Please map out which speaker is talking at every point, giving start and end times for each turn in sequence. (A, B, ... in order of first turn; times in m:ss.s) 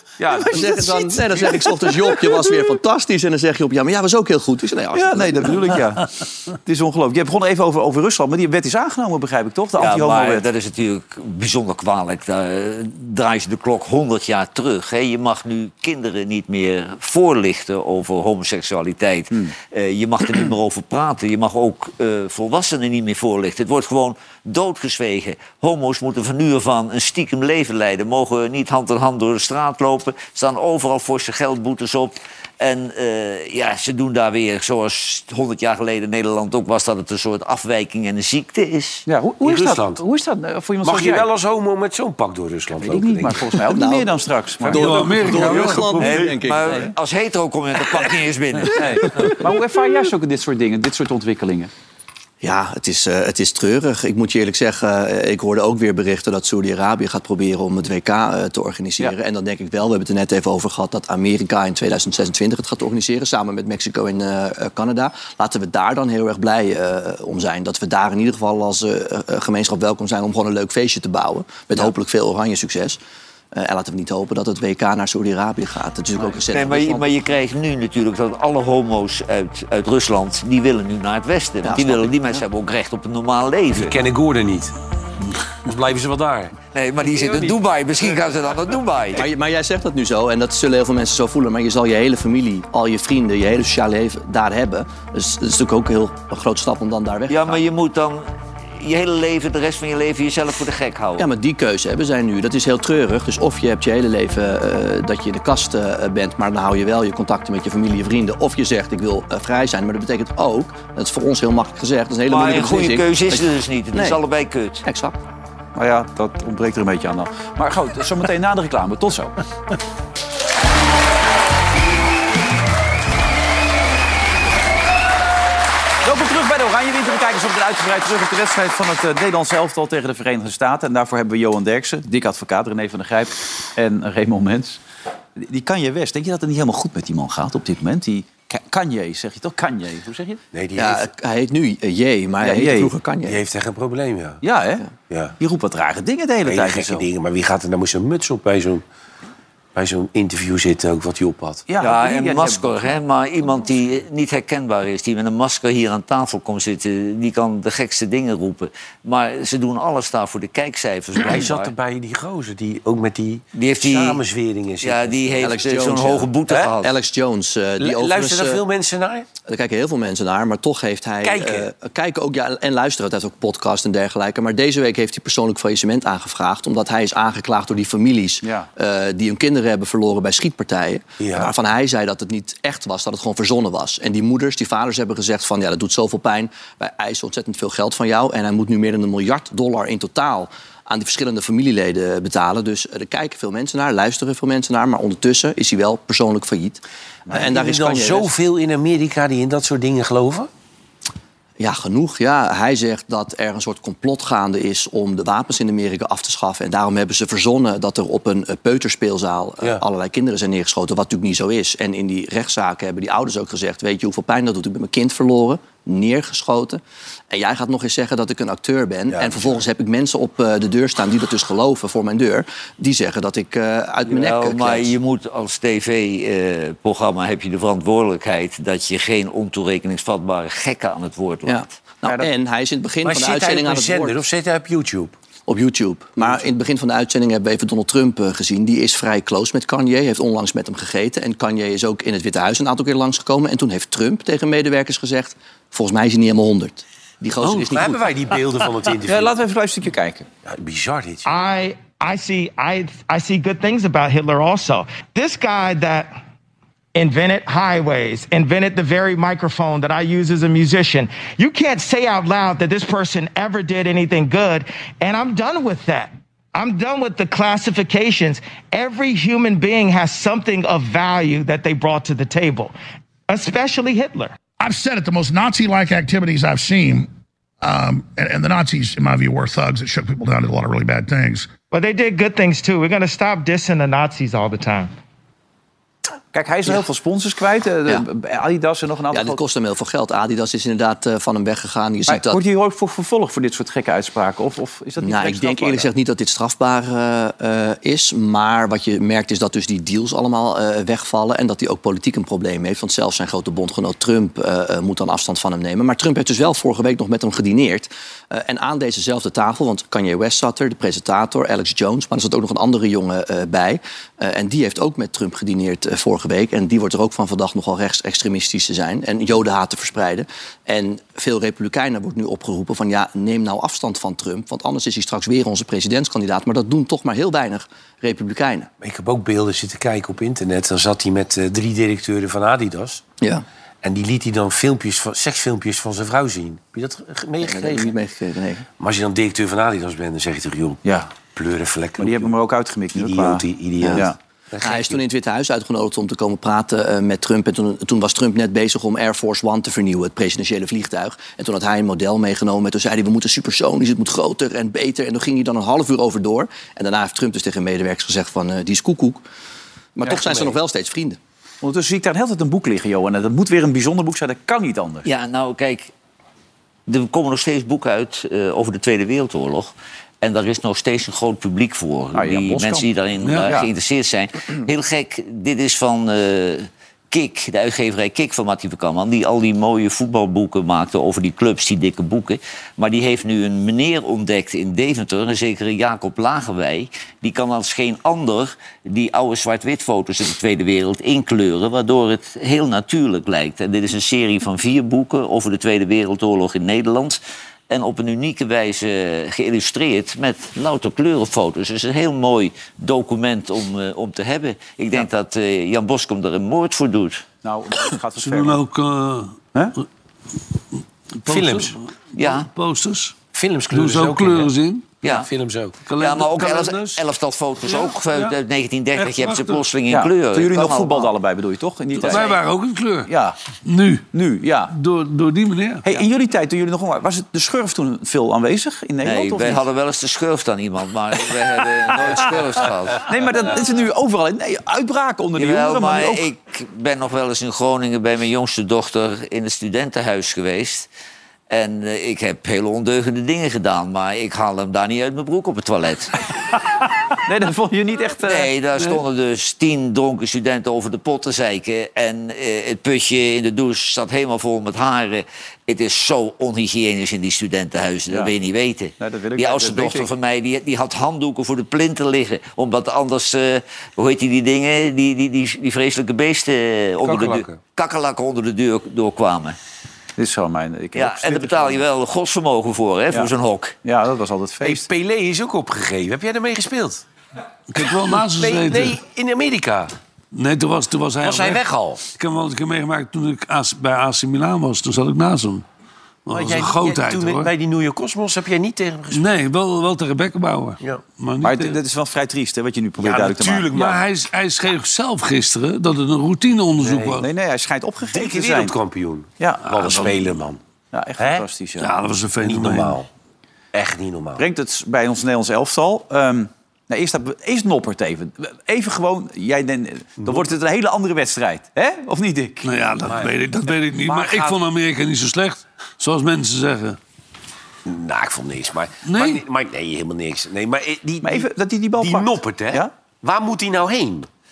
0:00.2-0:02.4 A
0:00.4-0:05.8 B
0:04.9-0:10.4 A
0:09.8-0:39.0 C
0:39.1-0:41.3 A
0:39.4-0:40.0 D
0:40.8-0:43.6 D
0:42.8-0:45.6 A
0:43.6-0:46.9 B
0:44.7-0:46.3 E
0:46.0-0:49.3 C
0:48.7-0:51.7 A
0:52.4-1:13.0 B
1:13.5-1:17.1 B
1:16.5-1:24.0 C
1:21.6-1:22.3 B
1:23.7-1:24.7 D
1:25.6-1:26.5 D
1:26.7-1:29.2 C
1:27.2-1:27.5 D
1:29.1-1:37.6 B
1:37.3-1:41.3 C
1:41.2-1:54.2 B
1:52.3-1:54.8 C
1:54.8-1:55.2 B
1:55.7-1:59.3 A
2:06.0-2:14.8 A
2:15.4-2:20.4 A
2:20.5-2:21.1 D
2:20.8-2:23.4 B
2:22.4-2:22.9 A
2:23.2-2:24.4 D
2:24.4-2:24.8 A
2:25.1-2:25.3 D
2:25.4-2:27.0 A
2:26.4-2:28.8 D
2:29.7-2:31.6 D
2:31.7-2:32.7 A
2:31.8-2:41.7 C
2:41.2-2:45.5 D
2:43.5-2:44.2 C
2:44.8-2:46.9 C
2:45.4-2:48.6 B
2:47.8-2:49.3 D
2:49.4-3:18.3 B
2:51.2-2:51.7 D
2:58.4-2:58.7 A
3:01.2-3:01.5 D
3:17.3-3:20.5 D
3:21.6-3:44.9 B
3:39.1-3:39.6 D
3:44.0-3:51.6 C
3:51.4-3:54.2 B
3:53.0-3:55.1 D
3:55.5-4:08.1 B
4:07.4-4:09.3 D
4:09.0-4:10.3 A
4:10.4-4:11.3 D
4:11.2-4:16.1 F
4:16.9-4:32.7 F
4:33.3-4:34.4 F
4:34.6-4:37.1 G
4:37.6-4:41.6 G
4:41.7-4:44.9 F
4:46.3-4:49.4 A
4:49.1-4:52.4 B
4:52.1-4:55.9 A
4:55.0-5:28.7 B
5:28.8-5:33.0 D
5:33.8-5:37.9 D
5:37.4-5:38.6 B
5:38.8-5:42.3 D
5:40.8-5:41.1 A
5:42.0-5:44.2 A
5:42.9-5:45.0 D
5:43.8-5:44.1 B
5:44.6-5:59.2 B
6:00.0-6:01.2 B
6:01.6-6:05.1 A
6:05.0-6:05.9 C
6:06.9-6:47.2 C
6:12.1-6:12.9 A
6:13.2-6:13.5 E
6:47.4-6:48.6 A
6:48.2-6:49.4 E
6:51.2-6:53.1 E
6:51.2-6:51.7 D
6:52.2-6:52.5 C
6:53.3-6:54.5 D
6:53.7-6:54.9 E
6:55.0-6:55.8 D
6:55.8-6:57.0 E
6:56.0-7:01.1 C
6:57.7-6:58.3 E
6:59.0-6:59.6 E
6:59.9-7:02.4 A
7:02.0-7:03.1 E
7:02.0-7:02.3 C
7:03.1-7:03.4 A
7:03.6-7:04.0 E
7:04.1-7:04.7 A
7:04.7-7:05.9 E
7:05.8-7:09.6 A
7:09.0-7:13.0 C
7:13.0-7:16.3 A
7:15.4-7:20.9 C
7:21.5-7:26.1 C
7:27.2-7:28.5 A
7:28.3-7:49.6 C
7:39.0-7:40.1 A
7:47.1-7:47.4 D
7:50.2-7:51.8 A
7:50.9-7:53.8 C
7:53.8-7:54.9 A
7:54.6-7:57.0 D
7:57.7-7:59.0 E
7:57.8-7:59.9 D
8:00.3-8:05.6 E
8:01.2-8:02.0 D
8:06.2-8:07.5 E
8:06.3-8:09.2 D
8:09.1-8:11.8 E
8:11.4-8:13.7 A
8:13.0-8:14.0 D
8:13.7-8:17.3 E
8:16.8-8:17.2 D
8:17.2-8:18.7 A
8:18.1-8:20.6 D
8:19.4-8:20.1 A
8:20.9-8:21.9 A
8:21.2-8:21.4 D
8:21.8-8:23.0 E
8:22.4-8:23.1 D
8:23.7-8:24.4 D
8:24.4-8:32.7 A
8:32.6-8:37.0 E
8:33.0-8:34.6 D
8:37.8-8:44.3 D
8:39.0-8:39.4 E
8:41.2-8:42.9 A